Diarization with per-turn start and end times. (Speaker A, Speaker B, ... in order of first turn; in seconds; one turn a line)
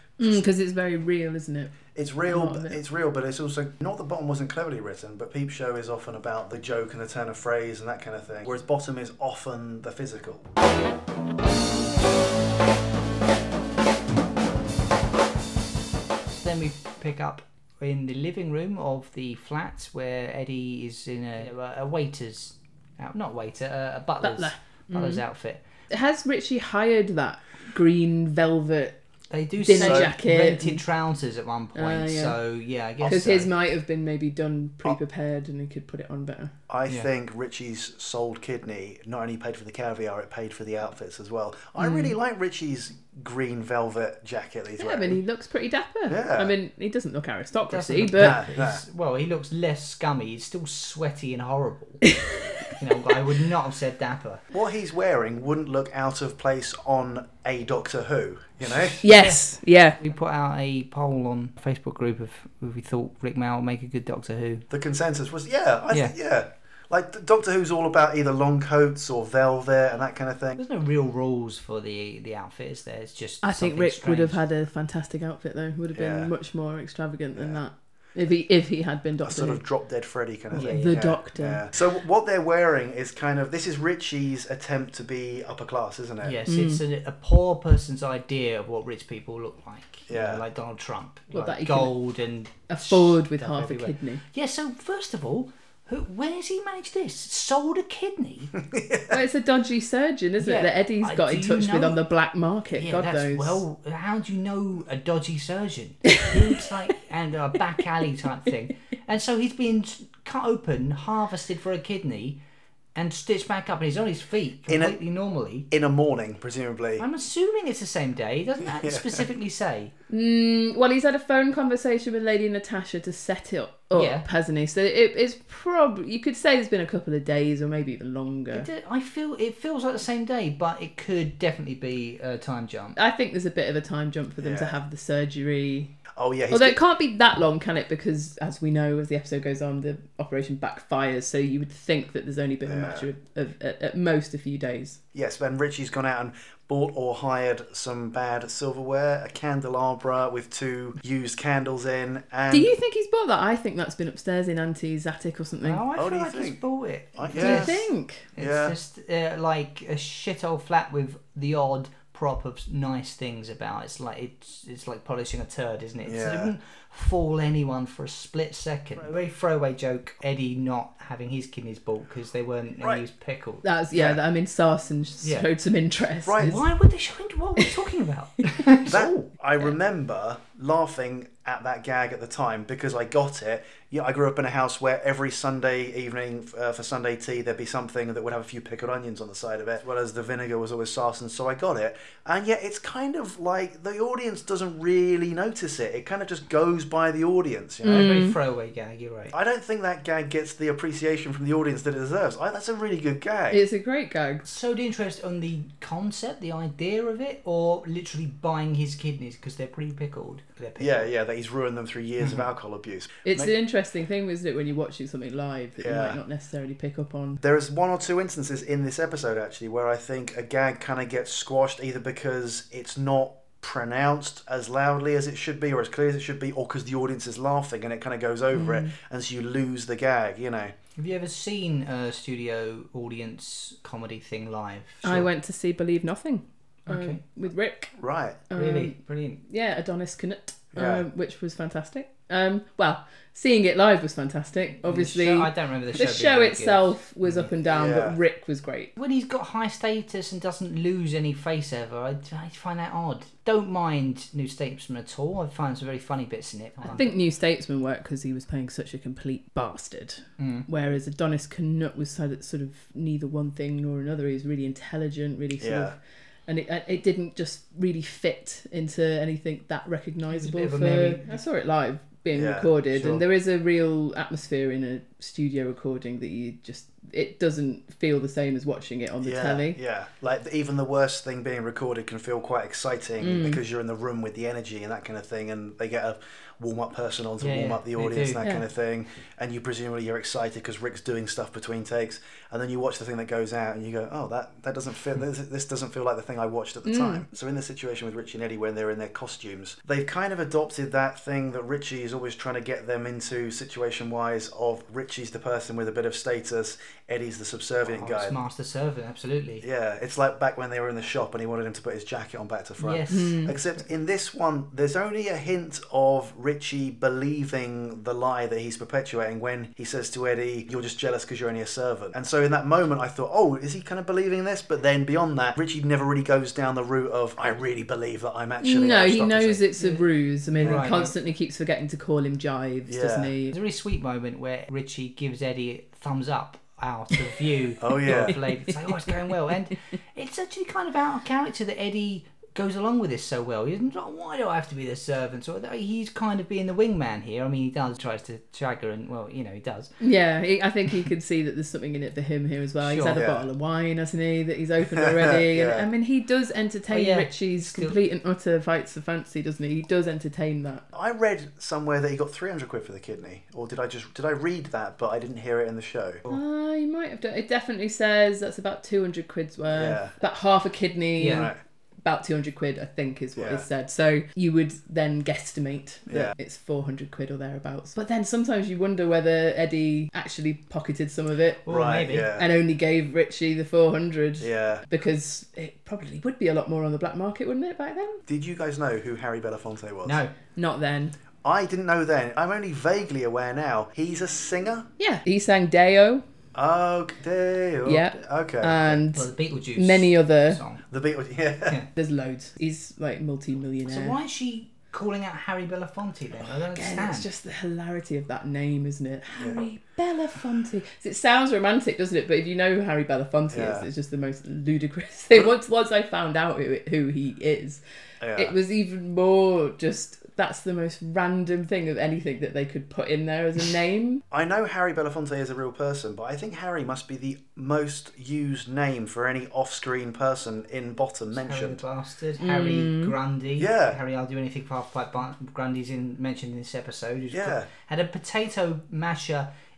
Speaker A: 0.2-1.8
Speaker B: 1.9-10.4
Speaker A: 2.3-2.8
Speaker C: 16.3-25.6
Speaker A: 24.2-25.2
Speaker A: 25.9-29.0
Speaker C: 29.3-33.5
Speaker A: 29.6-30.8
Speaker B: 29.8-30.1
Speaker A: 31.7-32.4
Speaker A: 33.0-36.5
Speaker B: 36.7-45.2
Speaker A: 41.8-42.1
Speaker A: 44.8-48.4
Speaker B: 46.1-46.5
Speaker C: 47.7-52.1
Speaker B: 48.2-48.8
Speaker A: 52.0-52.7
Speaker C: 52.6-54.4
Speaker B: 54.5-59.0
Speaker C: 58.6-59.4
Speaker A: 59.0-60.0
Speaker C: 60.0-64.7
Speaker B: 64.7-70.6
Speaker C: 70.6-74.4
Speaker A: 73.4-79.6
Speaker B: 75.9-76.3
Speaker B: 77.3-77.6
Speaker B: 79.2-86.4
Speaker A: 80.5-81.6
Speaker C: 80.5-81.1
Speaker C: 86.2-98.5
Speaker A: 86.5-86.8
Speaker B: 90.1-90.4
Speaker A: 91.3-91.9
Speaker A: 92.7-94.2
Speaker B: 98.6-99.2
Speaker A: 99.1-103.6
Speaker C: 100.4-102.0
Speaker C: 102.8-112.4
Speaker C: 112.9-115.7
Speaker B: 114.7-115.0
Speaker B: 115.7-117.0
Speaker C: 117.0-119.9
Speaker B: 118.7-119.2
Speaker A: 120.1-128.7
Speaker C: 123.9-124.2
Speaker C: 128.5-133.0
Speaker A: 132.9-135.9
Speaker B: 134.4-134.8
Speaker B: 136.1-136.8
Speaker A: 136.5-145.0
Speaker B: 142.7-143.1
Speaker B: 145.1-152.7
Speaker A: 152.5-155.8
Speaker C: 155.6-173.6
Speaker B: 155.9-156.6
Speaker B: 157.2-157.8
Speaker A: 157.3-158.3
Speaker B: 158.4-158.8
Speaker B: 166.0-166.5
Speaker A: 173.6-176.6
Speaker B: 176.2-176.6
Speaker C: 176.4-179.3
Speaker B: 178.8-198.1
Speaker A: 197.8-198.4
Speaker C: 197.9-199.3
Speaker B: 199.3-203.6
Speaker A: 203.5-204.4
Speaker C: 204.4-211.1
Speaker B: 210.8-213.5
Speaker C: 212.2-212.4
Speaker A: 213.2-217.4
Speaker B: 215.8-216.2
Speaker B: 217.4-230.7
Speaker A: 228.5-228.9
Speaker C: 231.0-235.3
Speaker A: 235.0-237.9
Speaker C: 236.9-237.2
Speaker B: 237.9-238.4
Speaker A: 238.5-248.9
Speaker C: 238.5-239.4
Speaker B: 240.7-241.0
Speaker C: 244.8-247.5
Speaker B: 247.6-248.2
Speaker C: 248.9-257.1
Speaker A: 256.8-279.8
Speaker C: 260.4-260.7
Speaker B: 265.6-265.9
Speaker C: 270.3-271.4
Speaker B: 272.3-273.2
Speaker B: 279.2-308.4
Speaker A: 283.2-283.6
Speaker C: 287.4-288.4
Speaker A: 296.8-297.2
Speaker C: 307.9-309.6
Speaker B: 309.6-329.6
Speaker C: 312.8-313.6
Speaker A: 313.1-313.5
Speaker A: 328.6-333.5
Speaker C: 329.8-330.0
Speaker C: 330.6-331.1
Speaker B: 332.9-333.3
Speaker C: 333.5-349.9
Speaker B: 337.8-338.4
Speaker A: 338.3-339.1
Speaker A: 350.0-360.8
Speaker C: 352.8-353.2
Speaker B: 353.1-353.4
Speaker B: 354.9-355.9
Speaker C: 356.9-358.0
Speaker B: 360.9-366.2
Speaker A: 366.3-371.5
Speaker B: 369.7-370.1
Speaker C: 371.2-371.5
Speaker B: 371.3-371.6
Speaker A: 372.0-381.6
Speaker B: 373.4-373.6
Speaker B: 376.1-376.3
Speaker C: 381.6-382.3
Speaker B: 381.7-382.5
Speaker A: 382.3-388.2
Speaker B: 384.4-384.8
Speaker B: 388.3-390.2
Speaker C: 390.0-390.3
Speaker A: 390.5-391.1
Speaker B: 391.4-394.9
Speaker A: 395.0-396.2
Speaker B: 396.5-398.9
Speaker A: 397.8-400.6
Speaker C: 399.1-400.8
Speaker B: 400.9-401.8
Speaker A: 402.0-404.1
Speaker C: 403.9-407.3
Speaker A: 406.5-417.8
Speaker B: 409.4-409.6
Speaker B: 413.5-413.9
Speaker B: 418.2-418.5
Speaker A: 418.4-424.2
Speaker B: 424.3-431.8
Speaker C: 431.3-439.5
Speaker A: 432.4-433.1
Speaker B: 433.6-434.0
Speaker B: 437.3-437.7